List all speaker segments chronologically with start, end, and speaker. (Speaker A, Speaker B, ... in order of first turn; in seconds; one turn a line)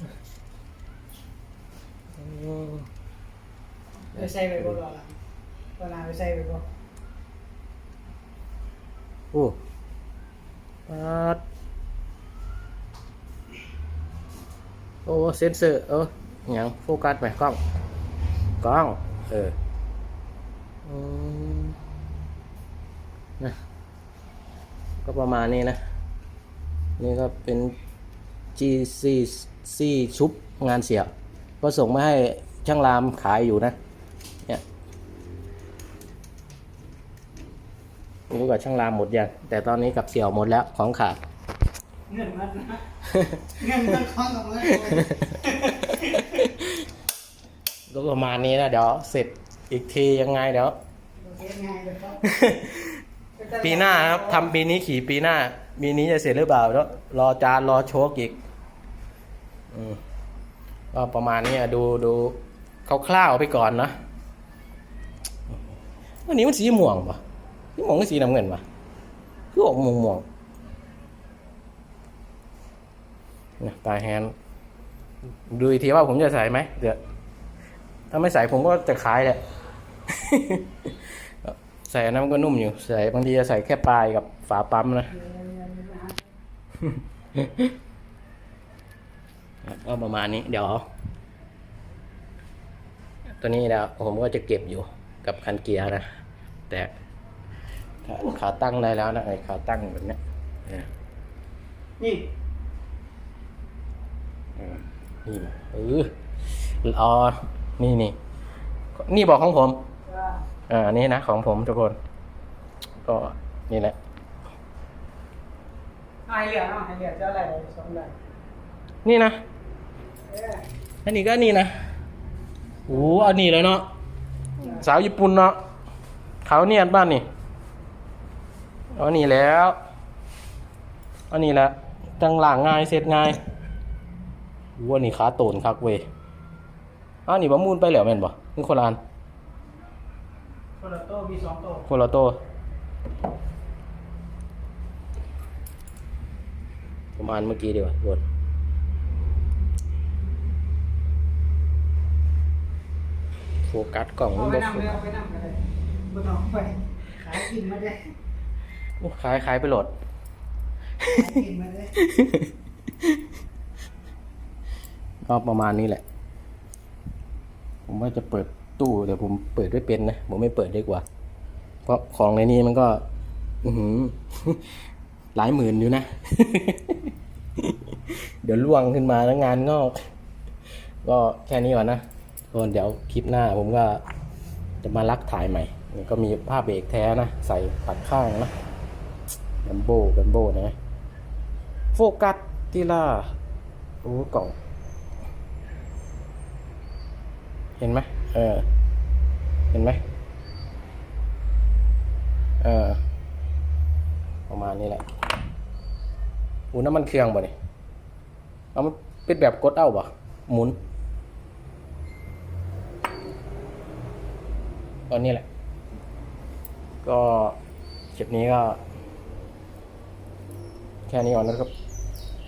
Speaker A: 2.2-2.9
Speaker B: 4.1-5.2
Speaker A: 4.2-4.8
Speaker B: 5.8-6.7
Speaker A: 10.9-11.4
Speaker A: 15.1-17.6
Speaker A: 18.6-19.6
Speaker A: 20.9-21.8
Speaker A: 25.0-25.8
Speaker A: 27.0-27.8
Speaker A: 28.6-33.8
Speaker A: 38.3-41.2
Speaker B: 42.1-42.8
Speaker A: 43.1-43.6
Speaker B: 43.5-46.4
Speaker A: 44.7-45.3
Speaker A: 45.9-46.8
Speaker A: 47.9-50.8
Speaker B: 51.2-52.3
Speaker A: 52.2-53.0
Speaker B: 53.4-54.5
Speaker A: 53.6-58.4
Speaker A: 59.7-60.0
Speaker A: 60.9-64.0
Speaker A: 66.3-67.2
Speaker A: 67.8-68.6
Speaker A: 69.5-70.2
Speaker A: 73.6-74.3
Speaker A: 75.5-77.0
Speaker A: 78.1-79.4
Speaker A: 80.1-80.9
Speaker A: 81.4-85.1
Speaker B: 85.1-86.3
Speaker A: 86.8-87.7
Speaker A: 89.7-90.8
Speaker A: 93.4-96.0
Speaker A: 98.0-100.9
Speaker B: 102.0-102.3
Speaker A: 104.6-106.1
Speaker A: 106.6-108.2
Speaker A: 109.0-109.8
Speaker B: 110.1-110.4
Speaker A: 110.7-112.0
Speaker A: 113.0-114.0
Speaker B: 116.3-118.2
Speaker A: 119.0-119.4
Speaker B: 120.3-120.7
Speaker A: 121.0-121.7
Speaker A: 122.9-123.9
Speaker B: 124.6-124.9
Speaker A: 124.7-125.6
Speaker A: 126.5-127.2
Speaker A: 128.9-129.8
Speaker A: 131.3-133.4
Speaker A: 134.8-136.1
Speaker A: 137.3-139.0
Speaker B: 140.8-141.9
Speaker A: 141.9-142.4
Speaker A: 147.2-148.2
Speaker A: 153.7-154.9
Speaker B: 154.3-158.1
Speaker A: 159.0-159.9
Speaker B: 161.1-161.9
Speaker A: 162.0-163.2
Speaker A: 165.2-166.0
Speaker A: 167.9-171.1
Speaker A: 171.9-173.0
Speaker A: 173.6-174.6
Speaker A: 175.3-180.1
Speaker A: 181.0-184.0
Speaker A: 184.8-188.5
Speaker A: 189.6-190.8
Speaker A: 191.9-193.3
Speaker A: 194.0-194.6
Speaker A: 197.8-198.7
Speaker A: 199.7-200.0
Speaker A: 202.6-203.0
Speaker A: 204.5-205.1
Speaker A: 206.7-207.5
Speaker A: 208.8-210.8
Speaker A: 215.1-215.4
Speaker A: 217.0-217.6
Speaker A: 218.2-218.8
Speaker A: 221.1-221.7